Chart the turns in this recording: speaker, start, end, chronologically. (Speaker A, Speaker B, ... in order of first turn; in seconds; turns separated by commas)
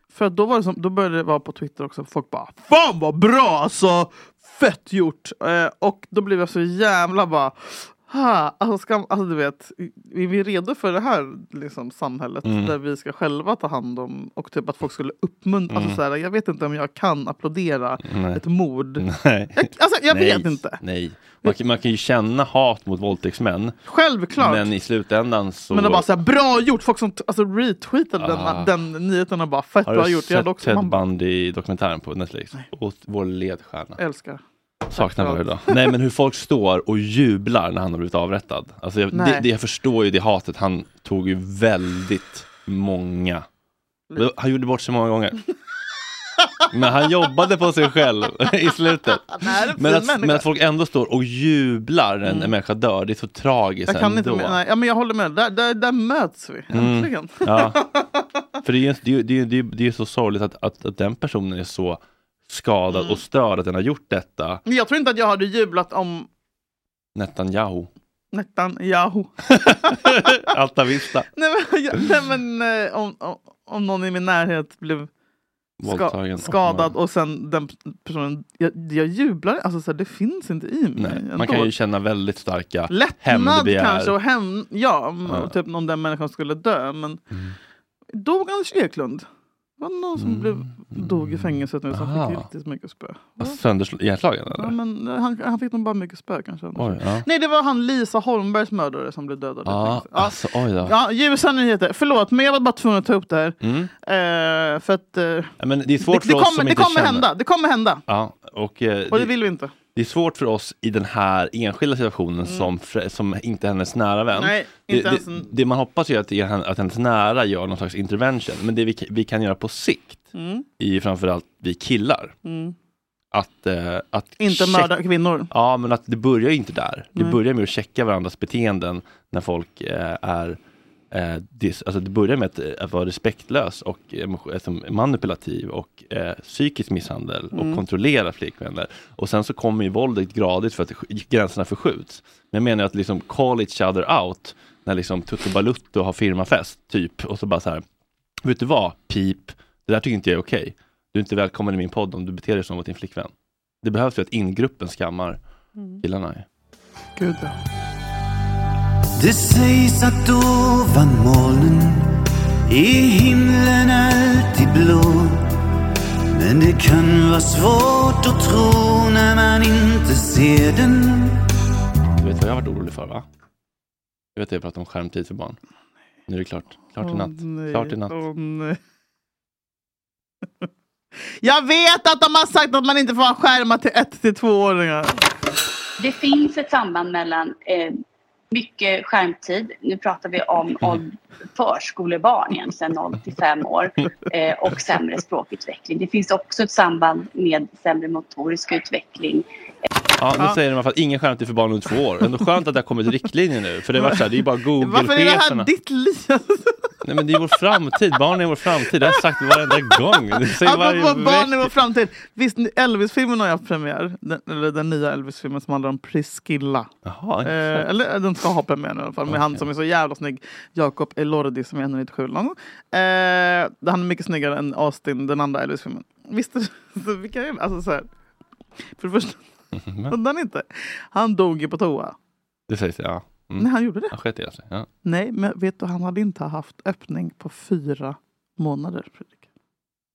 Speaker A: 0.1-19.1, Speaker B: 12.4-12.7, Speaker B: 15.7-16.0, Speaker B: 18.1-18.4, Speaker B: 19.0-23.8, Speaker A: 19.6-20.8, Speaker A: 23.9-24.7, Speaker B: 24.4-26.1, Speaker A: 25.7-31.0, Speaker B: 28.2-28.7, Speaker B: 29.9-34.0, Speaker A: 34.0-35.5, Speaker B: 34.9-43.5, Speaker A: 39.1-39.4, Speaker B: 44.2-45.4, Speaker B: 46.7-54.6, Speaker A: 49.2-50.5, Speaker A: 52.2-52.5, Speaker A: 53.9-58.3, Speaker B: 56.7-57.8, Speaker B: 58.6-64.6, Speaker A: 62.9-63.2, Speaker A: 64.7-66.3, Speaker B: 67.2-67.9, Speaker A: 68.3-70.4, Speaker B: 69.5-71.3, Speaker A: 71.3-75.1, Speaker B: 75.8-76.9, Speaker A: 75.8-81.7, Speaker B: 81.0-84.2, Speaker A: 82.9-87.2, Speaker B: 85.3-85.5, Speaker A: 88.1-89.2, Speaker A: 89.8-93.6, Speaker B: 90.2-92.5, Speaker B: 93.4-94.7, Speaker A: 94.5-105.5, Speaker B: 96.8-97.3, Speaker B: 99.7-101.0, Speaker B: 103.6-103.9, Speaker B: 105.6-107.3, Speaker A: 106.1-108.0, Speaker B: 108.1-109.3, Speaker A: 109.1-109.7, Speaker B: 110.0-120.3, Speaker A: 114.3-115.5, Speaker A: 120.3-120.7, Speaker B: 120.8-122.3, Speaker A: 122.5-122.8, Speaker B: 123.3-124.9, Speaker A: 124.4-125.5, Speaker B: 125.5-130.6, Speaker B: 131.1-147.8, Speaker A: 137.5-137.8, Speaker B: 148.4-153.3, Speaker B: 153.8-155.4, Speaker A: 155.8-156.0, Speaker B: 156.0-156.4, Speaker A: 157.2-157.5, Speaker C: 159.2-165.5, Speaker C: 166.3-171.4, Speaker B: 172.2-173.2, Speaker B: 174.4-175.6, Speaker B: 176.3-178.1, Speaker A: 177.0-178.8, Speaker A: 181.4-185.2, Speaker D: 186.0-188.0, Speaker D: 188.5-199.5, Speaker B: 200.2-205.7, Speaker A: 204.0-204.3, Speaker A: 204.8-206.9, Speaker B: 207.0-211.7, Speaker A: 209.1-210.0, Speaker A: 210.5-216.9, Speaker B: 217.1-217.9, Speaker A: 217.4-228.1, Speaker B: 219.3-219.6, Speaker A: 229.0-229.4, Speaker B: 229.8-230.1, Speaker A: 230.1-232.2, Speaker B: 232.7-234.9, Speaker A: 233.6-234.1, Speaker A: 235.1-239.4